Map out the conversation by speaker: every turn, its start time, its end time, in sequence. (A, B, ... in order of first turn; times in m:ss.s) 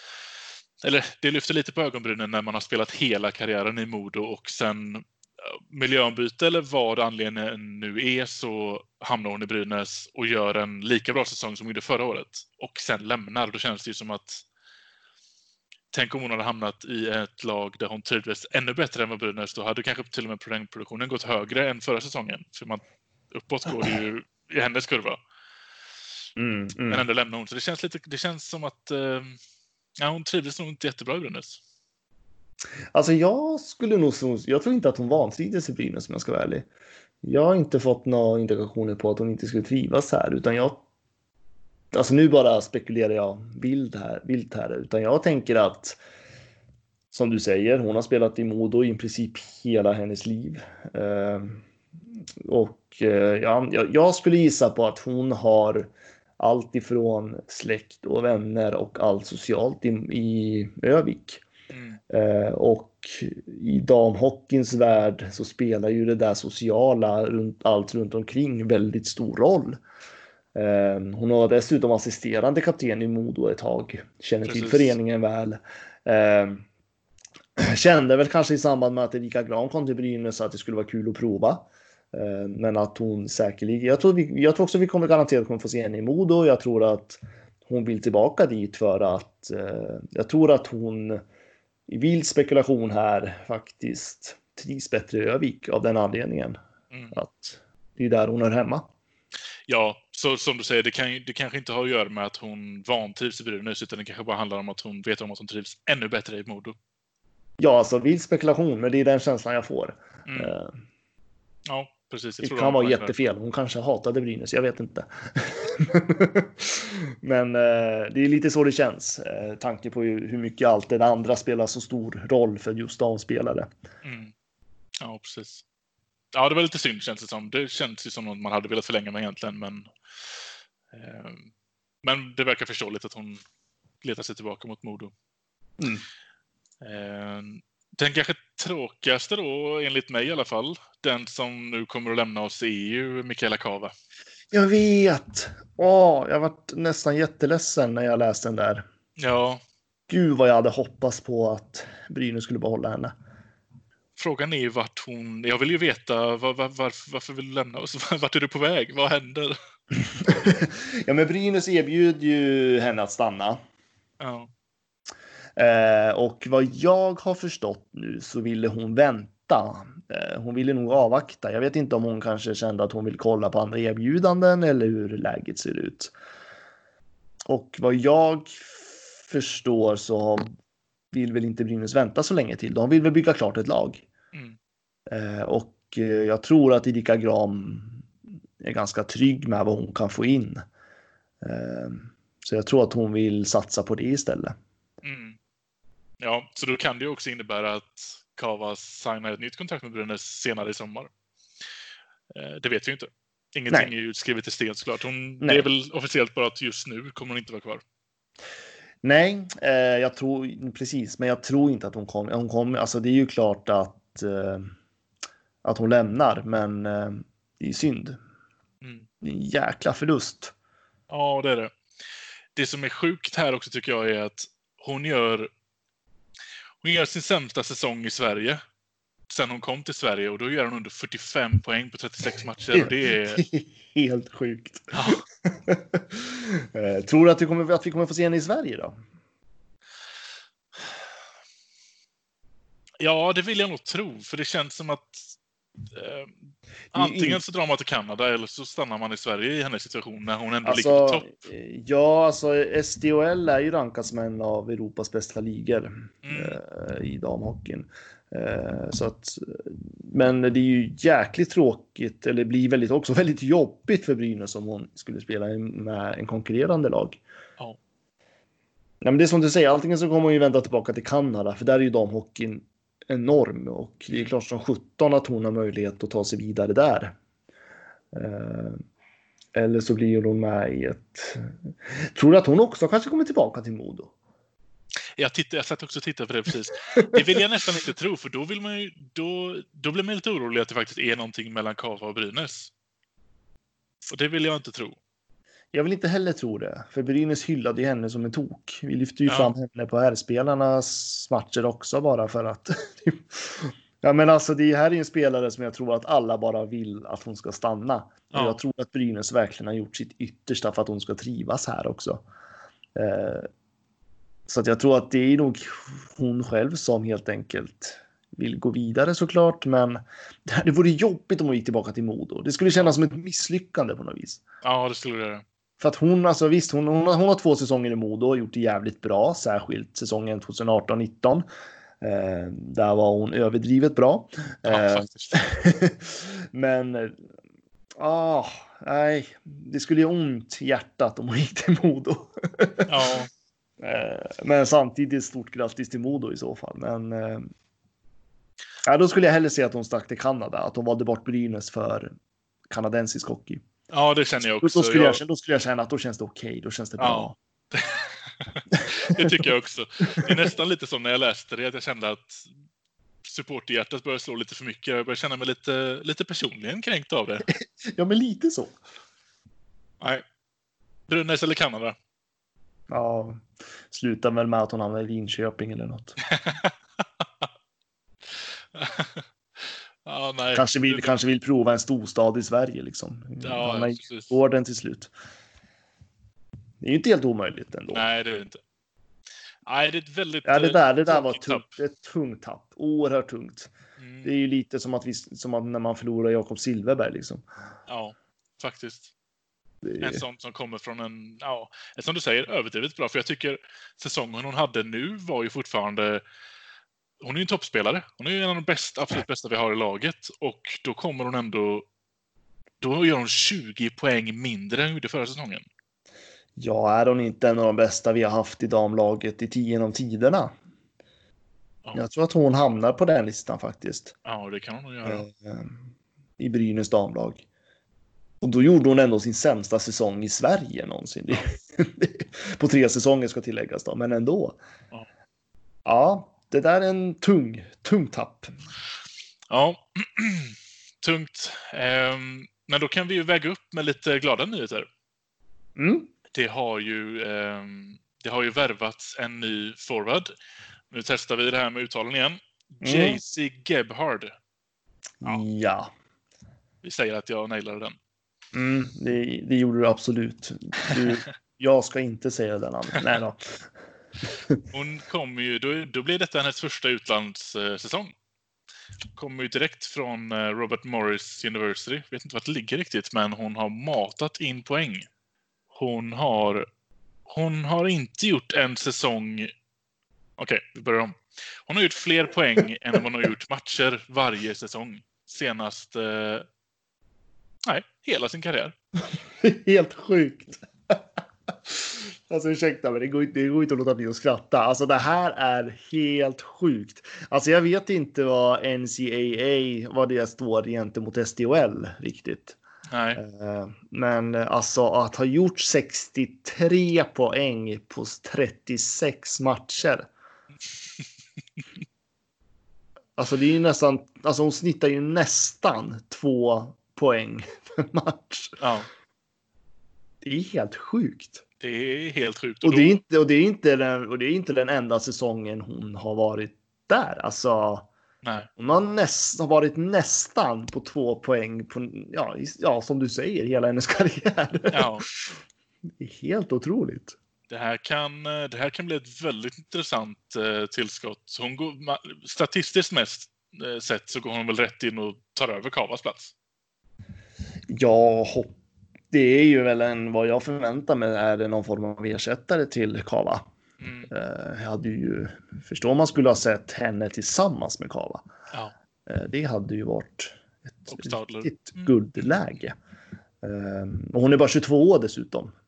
0:00.8-0:14.4 A
0:15.9-0:25.2 A
0:26.4-0:27.0 B
0:26.9-0:29.4 A
0:30.0-0:31.6 A
0:32.9-0:36.6 B
0:37.2-0:40.8 B
0:41.9-0:46.0 B
0:47.1-0:51.6 B
0:52.4-1:01.4 B
1:01.7-1:02.0 A
1:02.1-1:09.8 B
1:10.5-1:16.6 B
1:14.4-1:15.0 A
1:17.6-1:31.2 B
1:31.9-1:36.6 B
1:36.9-1:37.2 A
1:37.1-1:38.9 B
1:39.7-1:46.8 A
1:47.6-1:50.7 B
1:50.3-1:50.5 A
1:51.7-1:53.1 A
1:52.4-2:03.7 B
2:04.0-2:04.3 A
2:05.0-2:05.6 A
2:06.3-2:09.9 A
2:10.9-2:11.5 A
2:12.0-2:13.4 A
2:14.0-2:15.1 A
2:15.8-2:16.0 B
2:16.8-2:23.9 A
2:24.5-2:28.8 B
2:29.2-2:29.6 A
2:30.1-2:33.1 B
2:34.2-2:39.5 A
2:40.2-2:43.6 B
2:44.2-2:44.5 A
2:45.6-2:56.1 B
2:57.5-3:00.5 B
3:01.1-3:04.1 B
3:05.1-3:08.1 B
3:08.6-3:10.6 B
3:11.4-3:14.5 B
3:15.0-3:15.4 A
3:16.2-3:21.1 A
3:22.3-3:27.8 A
3:25.4-3:25.7 B
3:29.0-3:34.7 B
3:35.6-3:38.2 B
3:38.8-3:39.1 A
3:39.2-3:40.5 B
3:41.1-3:41.7 A
3:42.6-3:45.5 A
3:46.8-3:48.6 A
3:49.3-3:53.4 A
3:52.7-3:58.9 B
3:54.9-3:55.2 A
4:03.0-4:05.2 A
4:05.9-4:06.4 A
4:06.9-4:07.4 B
4:06.9-4:11.4 A
4:10.6-4:27.2 B
4:16.2-4:16.6 A
4:29.0-4:37.2 B
4:38.1-4:38.8 B
4:39.5-4:44.1 B
4:45.2-4:52.7 A
4:54.1-4:55.0 A
4:55.7-5:12.2 B
4:59.3-4:59.5 A
5:08.3-5:08.6 A
5:12.9-5:13.5 B
5:14.5-5:24.4 B
5:24.6-5:25.4 A
5:25.8-5:31.4 B
5:32.0-5:37.2 B
5:34.7-5:35.4 A
5:38.0-5:42.9 B
5:42.9-5:43.3 A
5:43.8-5:47.5 B
5:48.8-5:52.1 B
5:52.7-5:53.6 B
5:53.9-5:55.2 A
5:54.6-5:57.3 B
5:57.0-6:02.5 A
5:59.2-5:59.5 B
6:03.2-6:07.5 A
6:07.5-6:08.8 B
6:11.1-6:12.0 A
6:12.9-6:16.2 B
6:16.2-6:16.7 A
6:18.3-6:21.1 A
6:20.5-6:25.1 B
6:23.4-6:24.3 A
6:26.8-6:28.0 B
6:27.9-6:28.6 A
6:29.6-6:31.7 A
6:30.4-6:33.7 B
6:34.0-6:34.3 A
6:34.2-6:37.4 B
6:37.9-6:39.1 A
6:39.8-6:40.2 B
6:40.0-6:46.2 A
6:47.2-6:51.8 A
6:52.8-6:55.6 A
6:56.6-7:00.5 B
7:01.9-7:04.1 B
7:04.2-7:05.2 A
7:05.0-7:05.8 B
7:06.4-7:07.4 B
7:08.4-7:14.6 B
7:15.8-7:18.5 B
7:19.5-7:24.9 A
7:25.8-7:26.1 B
7:26.3-7:30.3 A
7:30.9-7:34.3 A
7:32.8-7:33.2 B
7:35.2-7:35.9 B
7:36.8-7:38.0 A
7:38.5-7:43.6 B
7:44.7-7:48.1 A
7:49.2-7:55.0 A
7:55.7-7:56.6 A
7:57.3-7:59.5 A
8:00.4-8:06.5 A
8:07.6-8:08.7 A
8:09.1-8:11.0 B
8:11.6-8:22.6 B
8:22.9-8:23.2 A
8:23.2-8:30.1 B
8:33.2-8:38.6 B
8:38.6-8:38.9 A
8:40.2-8:41.4 B
8:41.6-8:43.0 A
8:42.6-8:47.9 B
8:48.2-8:48.5 A
8:48.6-8:55.4 B
8:54.7-8:55.0 A
8:56.0-8:57.1 B
8:57.5-9:06.3 A
9:07.7-9:08.5 B
9:09.1-9:13.5 B
9:13.8-9:14.1 A
9:14.1-9:18.2 B
9:19.0-9:22.7 B
9:20.9-9:21.9 A
9:23.4-9:25.5 B